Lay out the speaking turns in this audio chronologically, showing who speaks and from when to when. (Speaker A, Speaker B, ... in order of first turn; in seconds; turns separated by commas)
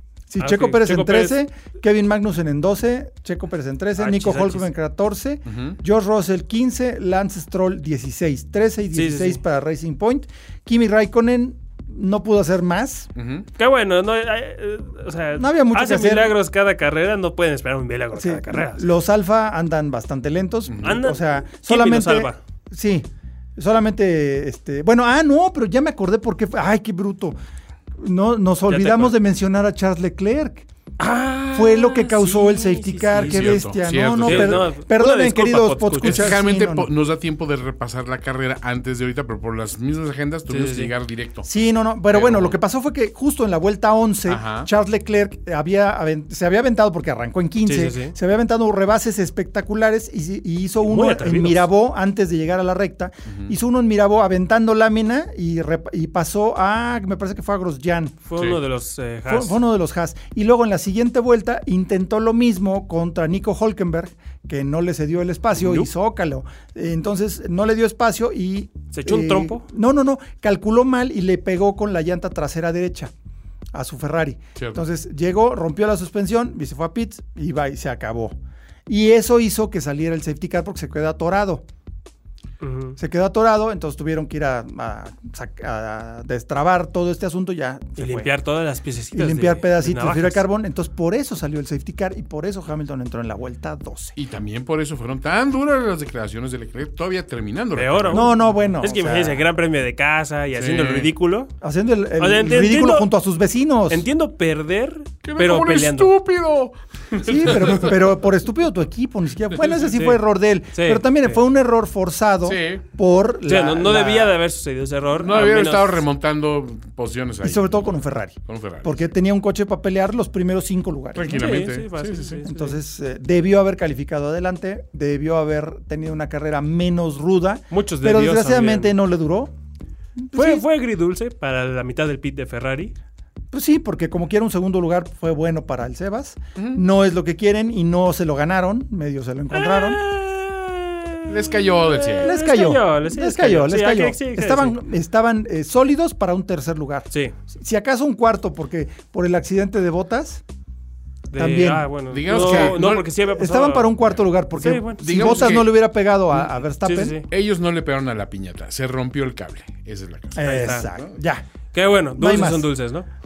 Speaker A: 0.3-13.1, Speaker B: 0.4-1.4, Speaker B: 4.0-4.7, Speaker C: 5.5-5.8, Speaker B: 8.9-9.4, Speaker C: 13.2-13.5, Speaker B: 13.6-18.9, Speaker A: 15.4-16.4, Speaker A: 18.1-27.4, Speaker C: 20.7-21.0, Speaker B: 20.8-22.4, Speaker A: 28.0-30.7, Speaker B: 28.7-29.1, Speaker B: 31.0-33.6, Speaker A: 31.5-36.9, Speaker C: 33.1-34.7, Speaker B: 34.2-36.4, Speaker C: 36.0-41.5, Speaker B: 40.5-40.9, Speaker A: 41.5-58.1, Speaker C: 42.1-42.5, Speaker C: 44.3-44.7, Speaker B: 47.6-48.1, Speaker B: 50.8-51.7, Speaker C: 53.3-53.5, Speaker B: 58.2-59.6, Speaker A: 59.3-73.1, Speaker B: 65.6-65.9, Speaker B: 68.9-69.6, Speaker A: 73.7-78.4, Speaker C: 74.6-74.8, Speaker A: 78.9-81.6, Speaker B: 82.6-83.0, Speaker A: 83.0-88.3, Speaker B: 88.0-90.4, Speaker A: 89.1-94.2, Speaker C: 94.2-98.3, Speaker B: 97.8-101.5, Speaker A: 98.1-99.4, Speaker C: 100.5-101.1, Speaker A: 101.6-104.0, Speaker B: 102.2-103.1, Speaker B: 103.9-106.1, Speaker C: 105.2-108.0, Speaker A: 107.3-114.4, Speaker B: 109.9-110.2, Speaker B: 110.7-111.4, Speaker C: 112.5-112.8, Speaker B: 113.5-116.0, Speaker C: 115.2-119.1, Speaker A: 117.4-121.5, Speaker C: 121.1-122.4, Speaker B: 121.3-122.8, Speaker A: 122.4-129.5, Speaker B: 127.7-128.9, Speaker A: 130.2-130.7, Speaker B: 130.3-132.9, Speaker A: 133.5-140.0, Speaker C: 136.6-136.8, Speaker B: 139.5-144.8, Speaker C: 141.3-142.3, Speaker A: 142.2-150.4, Speaker B: 151.3-155.5, Speaker A: 151.3-157.2, Speaker C: 152.1-153.1, Speaker C: 155.0-155.8, Speaker B: 156.8-157.3, Speaker C: 157.3-161.1, Speaker A: 160.3-161.4, Speaker B: 160.4-160.9, Speaker B: 161.7-163.1, Speaker A: 162.2-162.7